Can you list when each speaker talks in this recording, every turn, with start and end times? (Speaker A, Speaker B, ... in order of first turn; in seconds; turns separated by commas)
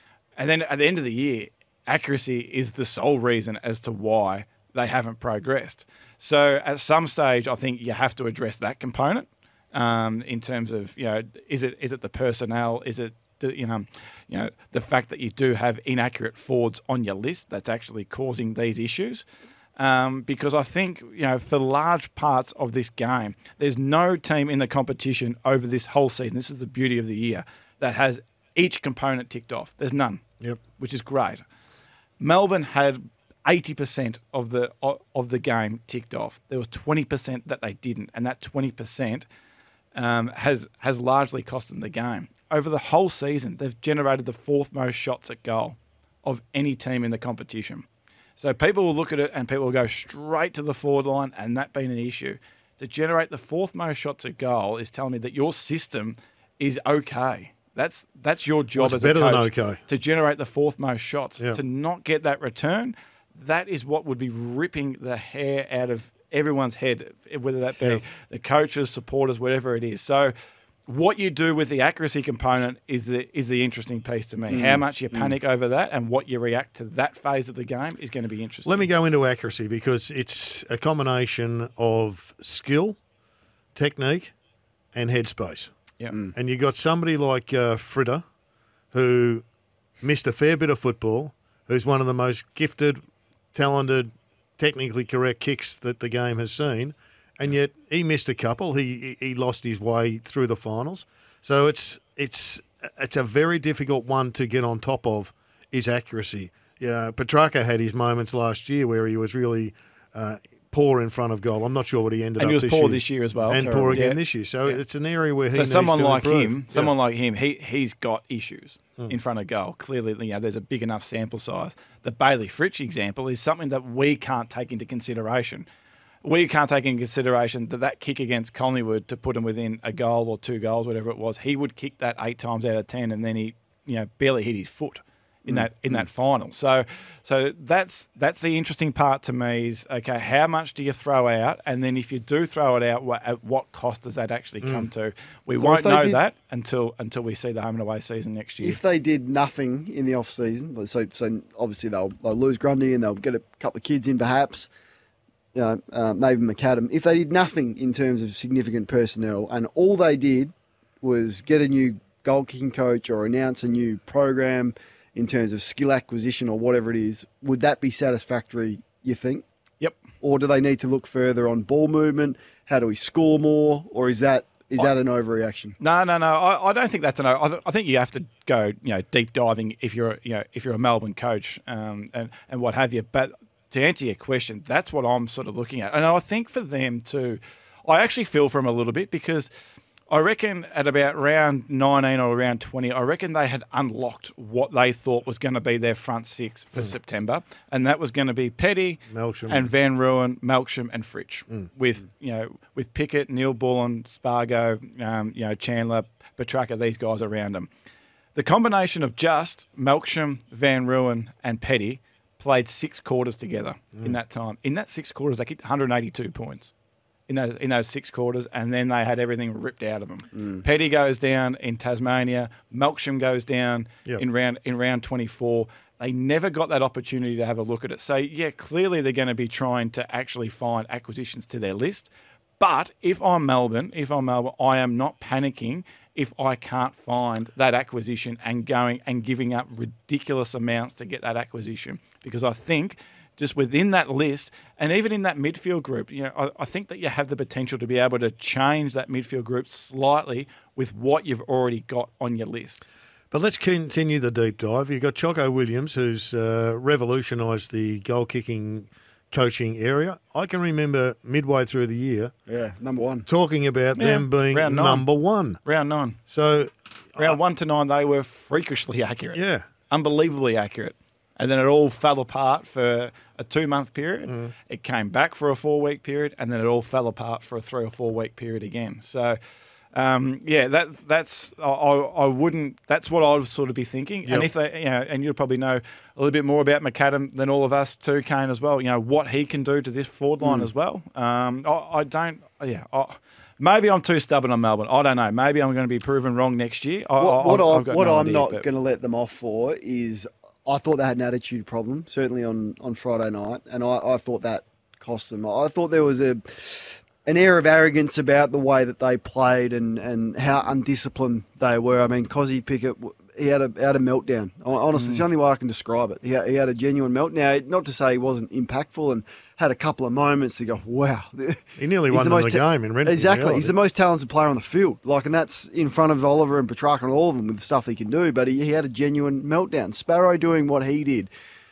Speaker A: 0.3-19.2, Speaker A: 19.8-30.2, Speaker A: 30.8-31.4, Speaker A: 32.2-39.2, Speaker A: 39.9-47.9, Speaker A: 48.4-70.3, Speaker B: 58.8-59.8, Speaker A: 70.9-78.8, Speaker C: 74.5-75.3, Speaker B: 78.6-83.0, Speaker B: 83.7-84.3, Speaker B: 84.9-85.7, Speaker B: 86.3-88.2, Speaker B: 88.9-89.4, Speaker B: 90.0-93.0, Speaker B: 93.5-116.9, Speaker A: 112.4-114.8, Speaker C: 113.5-114.0, Speaker A: 115.5-125.7, Speaker A: 126.2-148.8, Speaker C: 135.5-136.0, Speaker B: 144.6-144.9, Speaker C: 145.5-146.2, Speaker C: 148.6-154.7, Speaker C: 155.5-169.4, Speaker C: 170.2-175.8, Speaker A: 175.8-189.5, Speaker A: 190.1-207.7, Speaker B: 199.1-199.7, Speaker A: 208.3-216.7, Speaker A: 217.3-252.8, Speaker C: 220.3-220.6, Speaker B: 253.3-262.3, Speaker C: 262.5-263.3, Speaker B: 263.3-265.6, Speaker A: 264.0-265.0, Speaker A: 265.6-266.2, Speaker B: 266.3-267.4, Speaker A: 267.2-279.4, Speaker B: 269.3-269.6, Speaker A: 279.9-298.6, Speaker C: 290.4-290.7, Speaker C: 297.2-331.3, Speaker B: 321.8-323.7